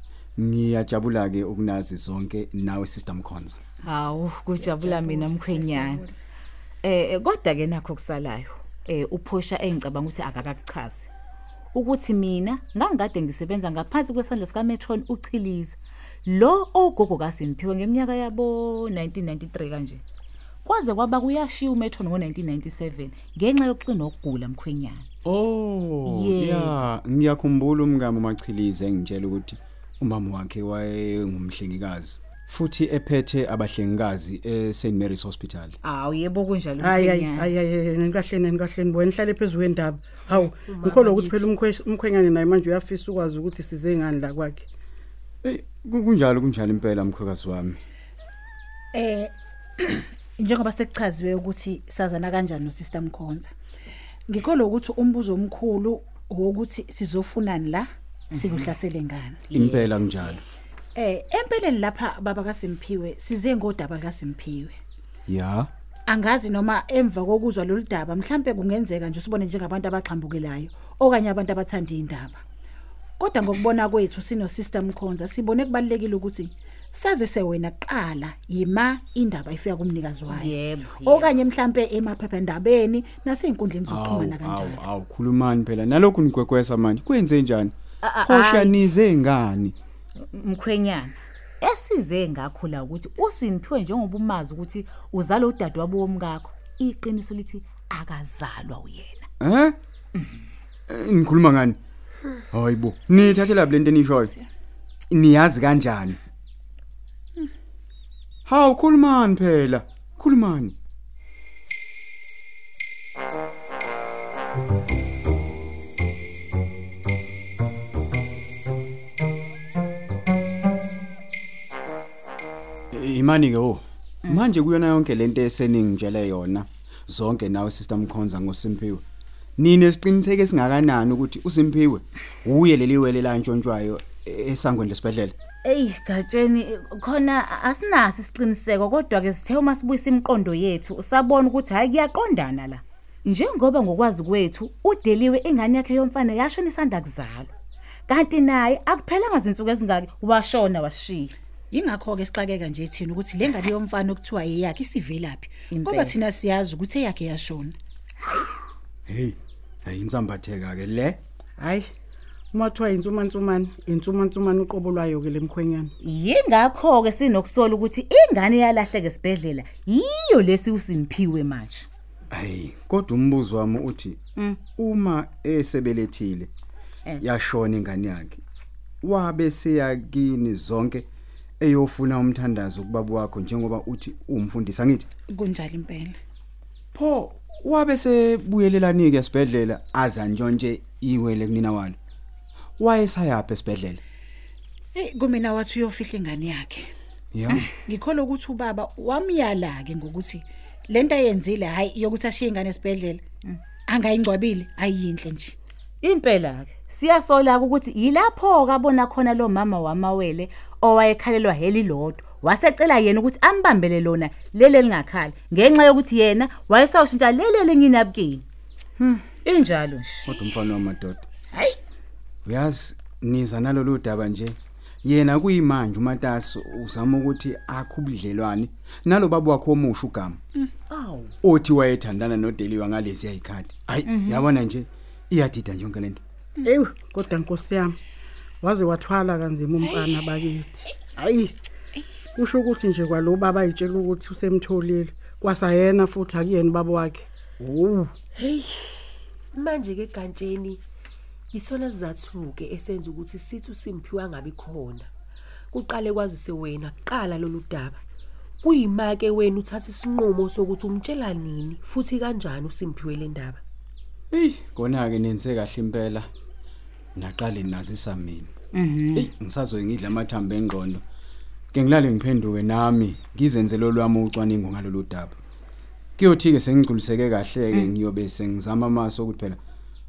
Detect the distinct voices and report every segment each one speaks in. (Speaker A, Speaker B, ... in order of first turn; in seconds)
Speaker A: 0.4-3.6, 25.2-35.8, 45.4-47.8, 59.5-60.4, 65.3-65.7, 83.9-89.8, 99.4-99.8, 100.9-101.8, 102.5-104.3, 105.1-106.2, 108.5-110.8, 122.9-129.0, 129.6-135.4, 159.1-161.2, 172.3-176.5, 177.2-178.4, 179.0-181.1, 181.6-185.1, 186.9-192.0, 192.8-194.0, 197.3-197.7, 220.3-221.3, 222.4-230.4, 231.4-236.2, 264.3-266.3, 267.1-268.5, 269.1-271.0, 271.7-275.4, 276.2-279.6
Speaker B: 3.8-6.0, 6.8-11.1, 11.7-20.0, 20.6-25.1, 26.1-26.8, 35.8-37.5, 58.3-58.7, 59.5-59.8, 80.3-81.3, 88.0-88.8, 90.2-99.3, 135.6-147.5, 148.1-151.3, 155.7-156.2, 166.0-171.9, 206.0-218.4, 219.4-220.3, 221.5-221.8, 230.9-231.3, 234.1-234.5, 268.7-269.3
Speaker C: 36.8-44.7, 161.6-161.9, 162.5-165.9, 236.6-238.0, 238.6-241.5, 242.4-248.1
Speaker D: 40.3-41.5, 248.4-250.8, 251.5-255.1, 255.7-258.0, 258.6-263.6
Speaker E: 48.9-53.5, 54.3-59.5, 61.0-64.8, 66.1-72.4, 73.2-84.8, 151.7-157.8, 185.3-186.2, 194.9-196.9, 197.8-203.2, 203.9-205.6